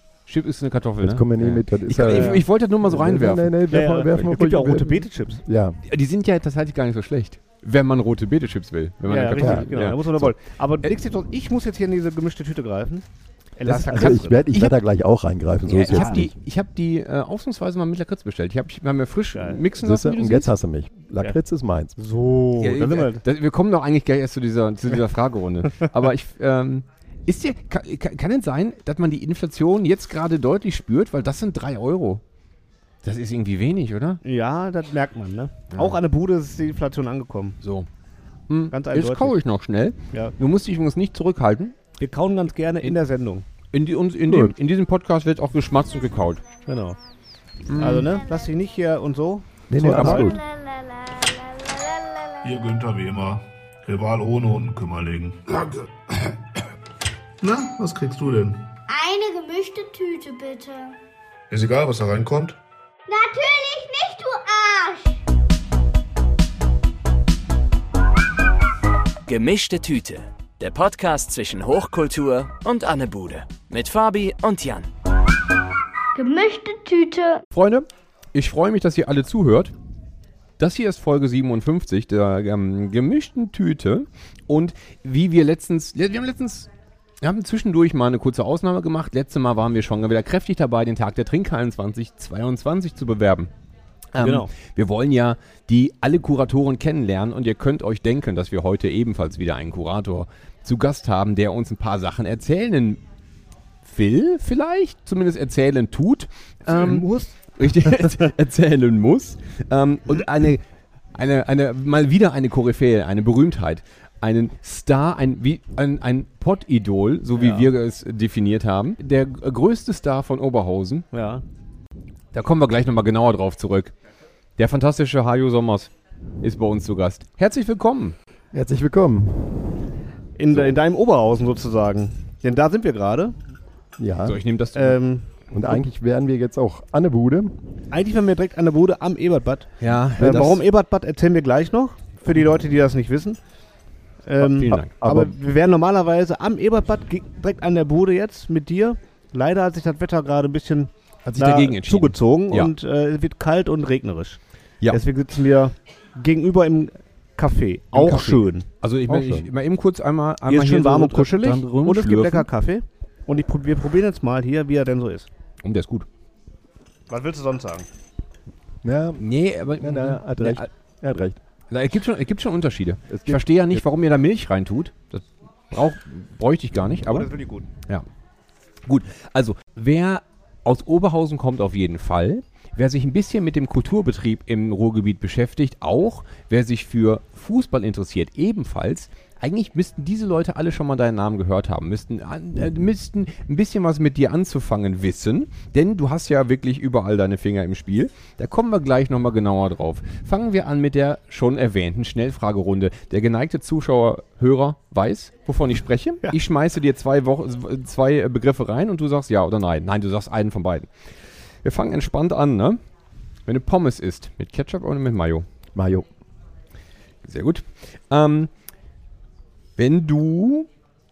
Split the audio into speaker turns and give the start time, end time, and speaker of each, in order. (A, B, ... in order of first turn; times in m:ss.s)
0:00.3-0:03.6 A
0:01.0-0:05.8 B
0:02.0-0:02.4 C
0:03.7-0:05.4 C
0:05.8-0:10.3 A
0:09.0-0:14.4 C
0:09.4-0:09.7 B
0:13.7-0:16.3 B
0:13.7-0:14.8 A
0:15.7-0:20.5 A
0:15.9-0:16.2 C
0:19.3-0:19.6 C
0:19.8-0:22.0 B
0:22.0-0:23.2 C
0:22.6-0:32.2 A
0:33.0-0:34.2 A
0:34.2-0:37.6 C
0:37.6-0:37.9 A
0:38.5-0:41.7 A
0:38.7-0:39.4 C
0:42.0-0:43.4 C
0:43.7-0:46.4 A
0:44.3-0:44.5 B
0:46.6-0:47.0 C
0:47.7-0:48.1 A
0:47.8-0:50.4 C
0:49.7-0:50.4 B
0:49.8-0:50.3 A
0:50.2-0:52.4 D
0:52.4-0:56.3 E
0:57.4-0:58.6 E
0:58.9-1:00.9 D
1:01.5-1:02.6 E
1:03.1-1:05.2 D
1:09.3-1:14.9 F
1:16.1-1:17.4 D
1:17.5-1:19.7 A
1:20.6-1:26.7 A
1:27.2-1:33.5 A
1:34.1-1:43.0 A
1:34.2-1:34.5 C
1:43.8-1:50.6 A
1:46.6-1:48.2 C
1:51.1-2:01.0 A
1:57.4-1:57.7 C
2:01.1-2:01.4 C
2:02.3-2:03.9 A
2:04.6-2:08.2 A
2:08.5-2:09.8 B
2:10.4-2:13.4 C
2:14.0-2:14.4 B
2:14.2-2:15.0 A
2:14.7-2:15.3 C
2:15.5-2:17.6 B
2:17.9-2:23.4 C
2:19.8-2:20.6 A
2:24.2-2:38.6 C
2:24.4-2:24.9 A
2:24.7-2:25.3 B
2:31.2-2:32.7 A
2:37.9-2:42.5 A
2:39.1-2:39.5 B
2:40.5-2:45.3 C
2:45.6-2:46.1 A
2:47.1-2:47.9 C
2:48.8-2:49.3 B
2:49.2-2:50.7 A
2:49.8-2:51.4 B
2:51.7-2:57.3 A
2:53.1-2:53.8 B
2:57.1-2:57.6 C
2:58.9-3:30.9 A
3:31.6-3:32.8 A
3:33.5-3:35.4 A
3:35.7-3:36.1 B
3:37.2-3:38.5 A
3:39.8-3:40.7 A